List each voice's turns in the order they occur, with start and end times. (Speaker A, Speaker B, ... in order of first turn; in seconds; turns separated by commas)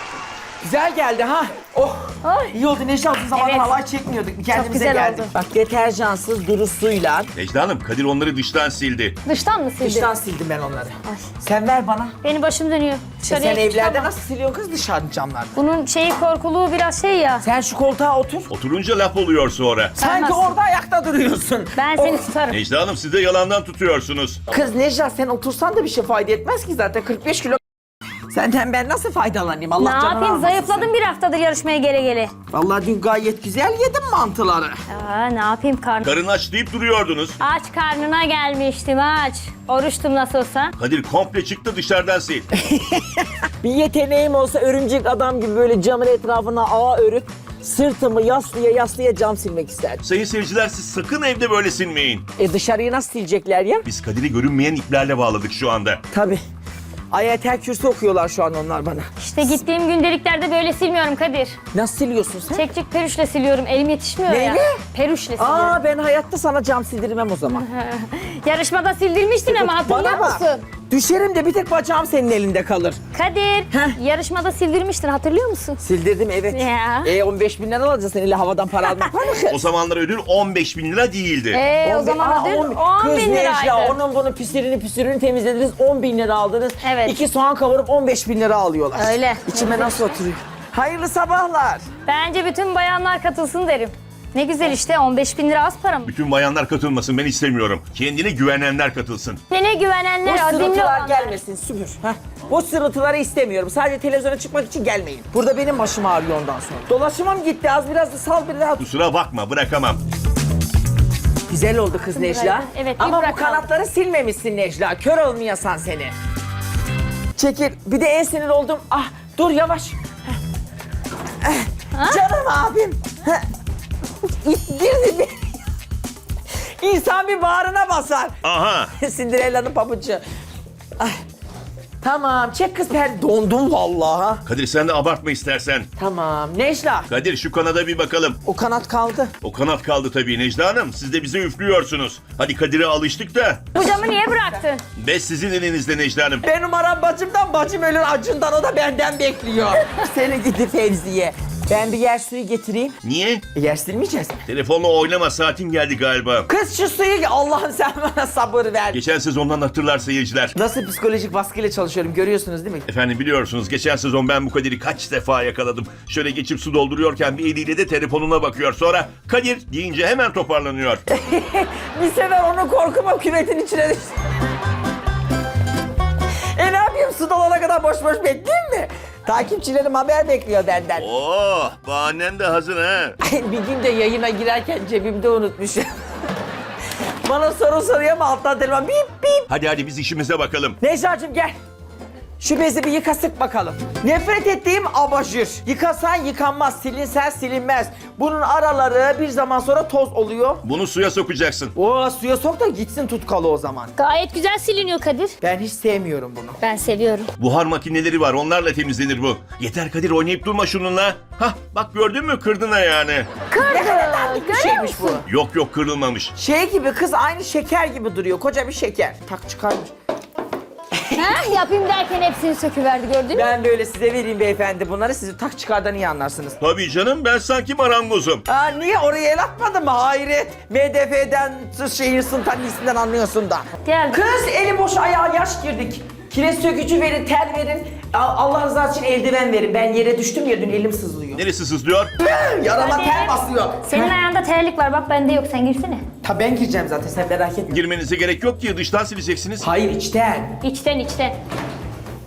Speaker A: 0.6-7.3, Speaker B: 2.2-2.5, Speaker B: 3.3-3.7, Speaker B: 4.5-5.3, Speaker C: 7.3-9.2, Speaker B: 9.2-10.1, Speaker A: 9.8-12.2, Speaker B: 12.2-14.1, Speaker A: 13.2-15.6, Speaker B: 15.6-17.4, Speaker A: 17.4-18.5, Speaker C: 18.5-19.9, Speaker B: 20.0-20.6, Speaker A: 20.0-22.3, Speaker B: 21.8-22.6, Speaker C: 22.5-24.4, Speaker A: 24.5-27.6, Speaker A: 28.3-30.9, Speaker B: 29.8-32.3, Speaker A: 32.5-34.8, Speaker B: 34.9-36.0, Speaker C: 36.0-37.4, Speaker B: 37.4-40.7, Speaker C: 40.8-42.5, Speaker A: 42.7-50.0, Speaker C: 50.0-52.3, Speaker A: 52.4-53.9, Speaker C: 53.9-56.0, Speaker A: 56.1-56.4, Speaker A: 57.1-59.1, Speaker B: 59.2-61.6, Speaker A: 61.7-62.7, Speaker B: 62.5-65.8, Speaker A: 64.3-64.8, Speaker A: 65.4-67.6, Speaker B: 67.5-70.7, Speaker A: 69.5-73.0, Speaker B: 73.1-75.8, Speaker A: 73.7-74.0, Speaker A: 75.8-79.6, Speaker B: 76.5-77.1, Speaker C: 79.5-81.6, Speaker B: 81.5-84.0, Speaker A: 81.8-91.8, Speaker B: 86.8-87.2, Speaker B: 89.0-90.2, Speaker B: 92.1-96.1, Speaker C: 96.1-99.4, Speaker B: 99.5-101.4, Speaker A: 100.2-108.8, Speaker C: 108.8-110.0, Speaker A: 111.5-116.1, Speaker B: 112.2-113.7, Speaker A: 117.4-120.0, Speaker A: 121.4-123.4, Speaker B: 122.0-122.2, Speaker A: 124.4-125.5, Speaker A: 126.8-130.2, Speaker C: 128.4-128.9, Speaker A: 132.0-134.4, Speaker C: 134.5-135.9, Speaker A: 136.0-137.1, Speaker C: 137.1-138.4, Speaker A: 138.4-139.3, Speaker C: 139.4-143.6, Speaker B: 143.8-144.8, Speaker C: 145.0-146.4, Speaker A: 146.4-153.0, Speaker C: 153.0-153.4, Speaker A: 153.5-154.4, Speaker C: 154.5-156.5, Speaker A: 156.5-159.0, Speaker C: 158.9-160.5, Speaker A: 160.6-162.9, Speaker C: 162.9-171.0, Speaker A: 171.1-174.2, Speaker A: 176.6-181.1, Speaker C: 181.0-183.2, Speaker A: 183.2-186.0, Speaker A: 187.2-189.5, Speaker C: 189.5-190.8, Speaker A: 190.8-191.6, Speaker A: 192.4-200.6, Speaker C: 200.6-201.7, Speaker A: 201.8-203.9, Speaker B: 204.0-205.3, Speaker A: 205.4-206.6, Speaker B: 206.6-207.3, Speaker C: 207.4-213.3, Speaker B: 213.5-215.2, Speaker A: 213.6-215.2, Speaker C: 215.3-216.3, Speaker A: 216.3-219.9, Speaker A: 221.0-221.3, Speaker B: 221.1-223.5, Speaker A: 223.3-226.6, Speaker C: 226.6-228.4, Speaker A: 228.5-241.4, Speaker B: 233.8-234.2, Speaker C: 241.3-242.1, Speaker A: 242.2-244.1, Speaker B: 242.8-246.1, Speaker A: 246.2-247.8, Speaker C: 247.7-249.7, Speaker A: 249.6-250.6, Speaker B: 250.6-251.4